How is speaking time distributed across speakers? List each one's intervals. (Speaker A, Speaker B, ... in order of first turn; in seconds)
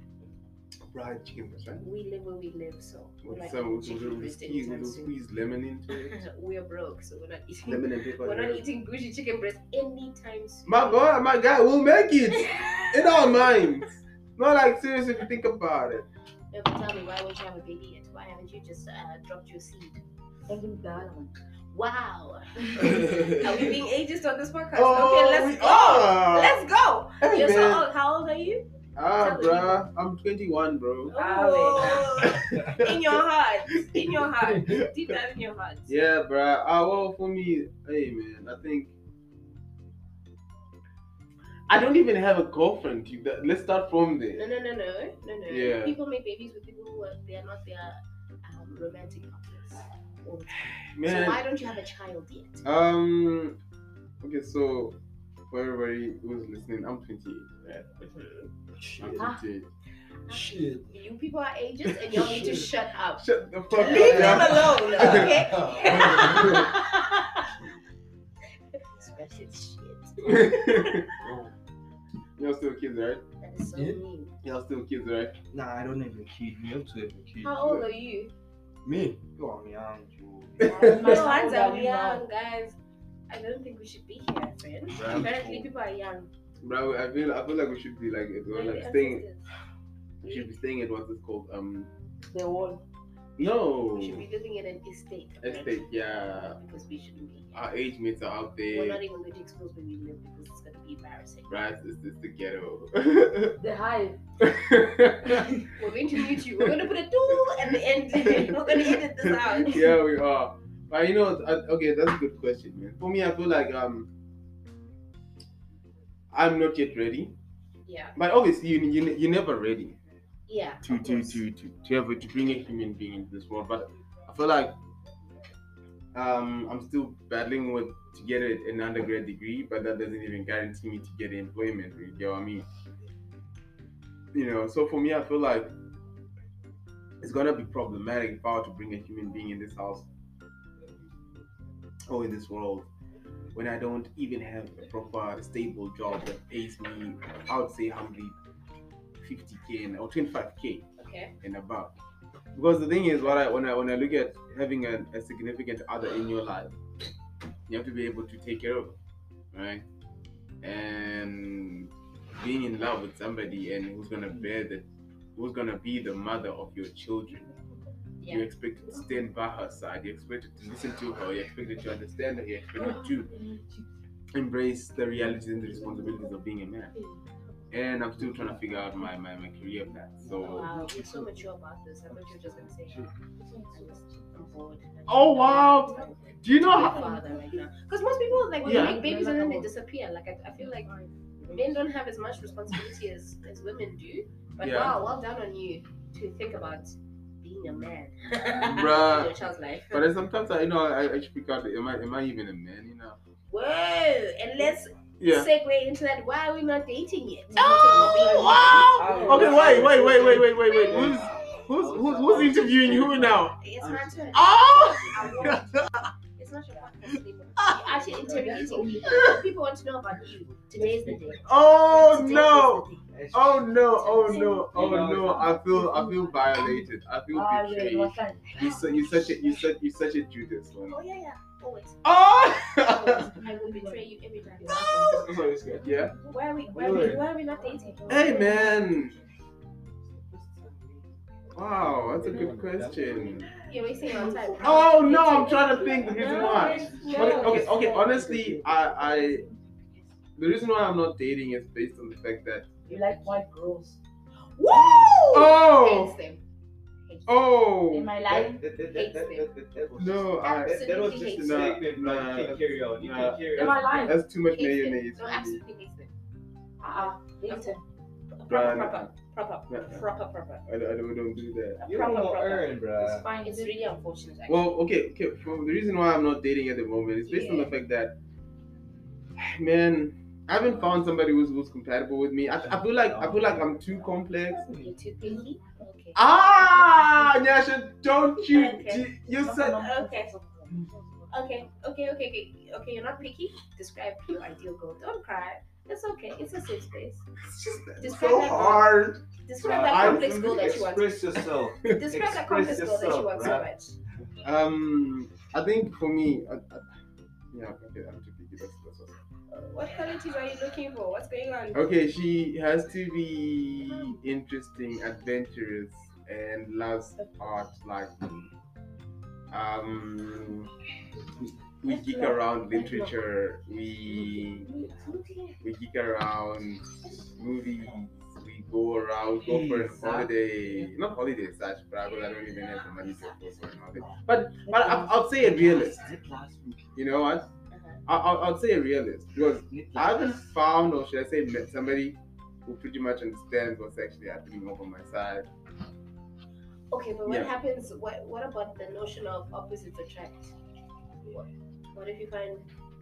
Speaker A: 0.8-1.9, 3.2-6.2, 7.7-8.6, 10.7-16.1, 22.8-23.7, 24.7-26.6, 27.2-27.9, 28.9-31.1, 32.2-33.2, 33.9-34.9, 35.9-38.9, 41.7-44.5, 45.5-46.0, 50.8-51.4, 52.6-53.6, 54.2-55.0, 55.5-58.1, 59.0-59.7, 61.9-66.8, 70.2-71.2, 72.4-73.2, 74.4-75.4, 80.6-81.1, 86.6-89.2, 90.2-91.9, 93.4-94.2, 95.4-96.6, 97.5-99.0, 101.5-103.6, 104.4-105.6, 106.3-106.7, 108.1-114.1, 116.3-117.3, 118.2-120.0, 120.8-124.7, 126.1-132.7, 134.3-135.7, 137.2-140.1, 142.0-142.9, 143.5-148.3, 149.2-150.8, 151.4-151.9, 152.5-156.7, 157.7-159.0, 159.5-159.8, 160.6-167.4, 168.3-173.3, 174.3-176.9, 177.7-180.7, 185.1-187.1, 188.6-189.0, 194.6-195.0, 198.6-199.4, 199.9-203.2, 205.2-205.5, 207.5-213.6, 214.3-216.1, 217.6-218.0, 219.0-219.4, 221.4-231.0, 232.0-233.3, 234.9-236.1, 238.1-239.2, 241.5-243.5, 244.6-249.4, 250.3-252.7, 255.3-256.2, 257.3-258.2, 260.0-265.6, 268.5-269.1, 269.7-270.1, 270.6-271.8, 274.5-278.2, 279.4-284.6, 286.1-289.8, 297.4-300.8, 304.4-306.9, 307.5-309.2, 311.7-318.5, 319.5-320.7, 321.4-324.7, 325.6-336.1, 336.9-337.4, 338.1-345.5
Speaker B: 1.8-5.1, 6.1-11.0, 12.3-13.5, 16.5-20.0, 21.7-29.8, 31.1-36.0, 44.3-52.6, 58.0-58.5, 60.3-67.6, 68.9-71.1, 73.4-74.3, 77.4-78.3, 80.8-82.8, 83.3-86.3, 88.5-89.5, 90.2-90.5, 93.9-97.7, 98.7-101.6, 105.7-109.8, 117.8-118.2, 120.5-121.4, 151.0-151.3, 168.2-168.5, 180.5-183.1, 183.7-190.9, 191.5-200.1, 203.5-211.6, 213.6-223.0, 224.0-225.0, 230.9-232.0, 233.3-235.6, 236.3-238.7, 243.7-247.6, 254.5-256.4, 257.1-257.4, 258.9-259.5, 260.4-261.8, 264.5-266.1, 266.9-267.8, 268.3-270.6, 271.8-272.8, 273.4-274.7, 277.2-277.7, 284.6-287.2, 288.4-289.1, 289.6-290.3, 291.3-297.3, 297.9-303.9, 309.5-311.9, 337.7-338.0, 346.9-350.5, 351.3-352.6
Speaker C: 20.5-21.3, 31.1-32.3, 59.1-59.4, 80.7-82.2, 92.3-92.8, 103.6-104.2, 172.8-173.9, 175.3-176.3, 176.9-177.5, 180.6-181.2, 183.1-184.6, 185.7-186.1, 186.7-187.6, 188.5-189.7, 190.6-191.8, 207.5-210.7, 218.0-219.4, 225.2-229.6, 232.9-239.1, 244.0-250.0, 252.8-254.0, 257.9-258.6, 263.5-264.2, 266.8-267.8, 273.0-273.9, 285.2-285.8, 289.4-291.6, 321.9-323.2, 324.1-325.6, 334.6-335.1
Speaker D: 58.8-59.2, 60.3-60.9, 63.8-66.6, 71.2-71.5, 73.7-74.0, 75.5-77.6, 78.9-81.3, 84.9-85.7, 178.2-178.8, 180.2-181.3, 182.3-183.1, 209.0-215.6, 220.2-221.4, 223.1-225.8, 235.0-236.1, 236.7-237.2, 240.0-244.9, 246.1-248.1, 258.2-264.1, 271.8-273.3, 282.6-284.9, 299.6-303.7, 329.4-330.9, 335.3-337.0, 339.7-340.5